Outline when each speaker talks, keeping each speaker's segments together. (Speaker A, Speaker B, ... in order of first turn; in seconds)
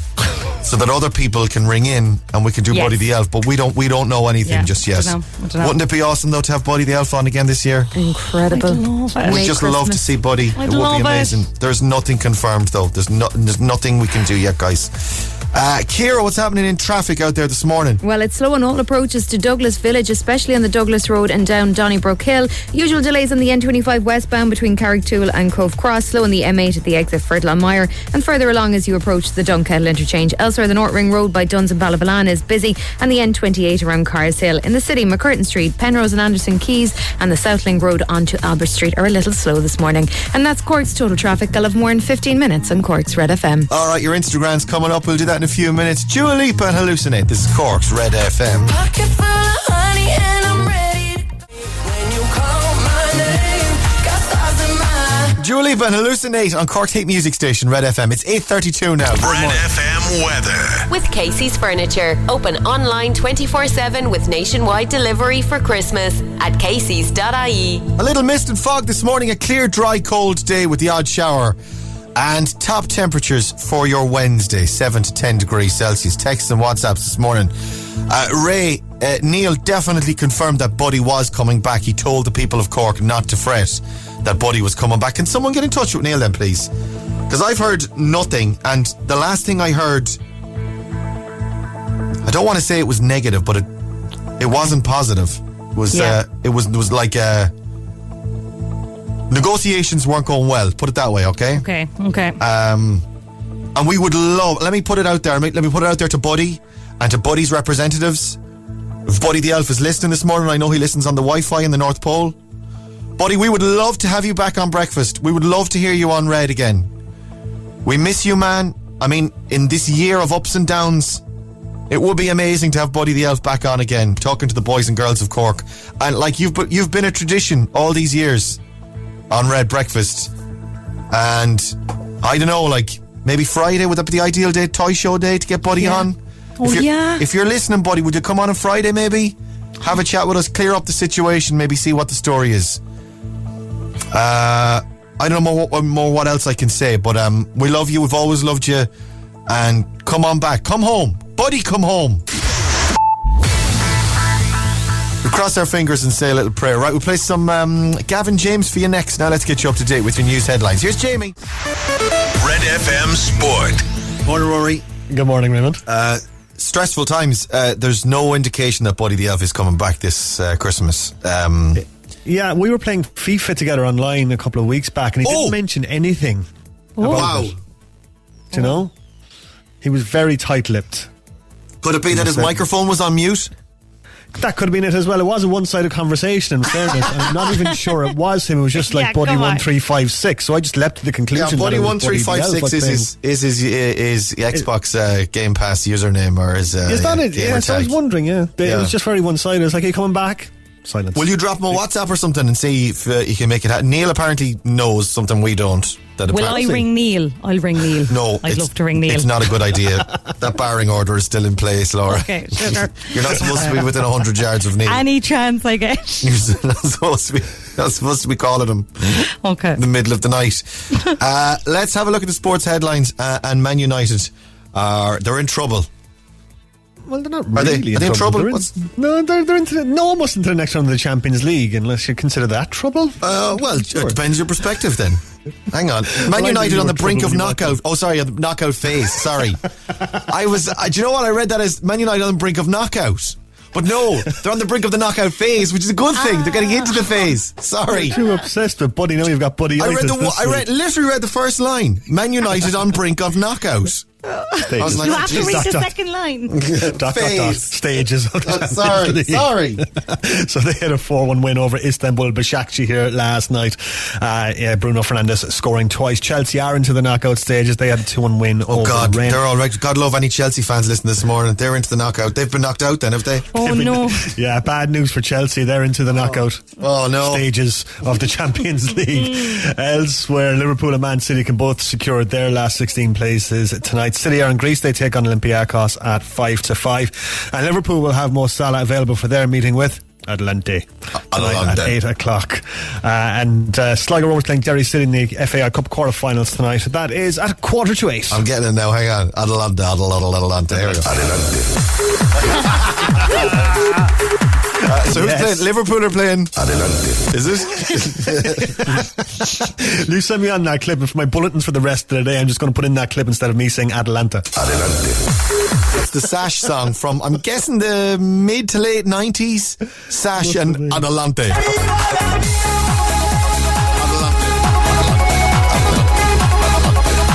Speaker A: 0.5-7.9, 9.2-18.0, 43.7-48.8, 55.4-59.7, 68.0-71.6, 72.2-86.7, 87.3-90.2, 92.2-93.7, 94.4-97.5, 99.3-101.7, 102.4-103.0, 103.7-108.4, 109.0-112.4, 113.2-116.9, 117.8-121.2, 121.9-128.6, 129.3-130.3, 131.1-142.8, 144.1-148.9, 149.5-152.2, 155.2-161.3, 164.2-164.9, 165.8-171.8, 175.2-175.6, 177.0-177.6, 181.8-183.5, 191.3-197.9, 198.6-198.9, 201.1-206.8, 208.1-215.0, 216.2-225.9, 227.5-228.7, 233.2-239.6, 240.1-248.2, 249.8-254.1, 254.8-255.7, 256.5-257.8, 258.4-259.8, 268.7-273.5, 276.3-277.4, 291.3-292.0, 298.3-301.6, 302.4-303.5, 304.8-306.7, 307.2-309.4, 315.9-321.7, 323.9-326.2
Speaker B: 2.7-3.0, 4.4-5.8, 8.5-9.6, 10.5-11.4, 95.9-96.2, 101.5-102.4, 135.8-136.1, 136.6-137.2, 178.5-178.8, 188.8-189.6, 206.3-209.5, 212.1-213.9, 214.8-216.3, 219.4-219.8, 246.2-247.0, 254.3-256.6, 273.5-274.3
Speaker C: 7.9-10.0, 18.0-43.7
Speaker D: 48.8-51.2, 52.0-55.4
Speaker E: 59.2-60.9, 162.4-163.8, 306.6-307.2, 314.7-315.2
Speaker F: 60.9-67.9
Speaker G: 165.1-165.8, 172.2-176.5, 177.0-177.6, 178.5-178.9, 179.8-181.1, 182.1-182.6, 184.3-193.1, 196.8-201.2, 206.4-206.8, 227.1-234.2, 236.2-237.8, 247.9-250.7, 254.7-255.9, 256.7-269.4, 273.6-298.4, 305.0-305.6, 308.1-314.5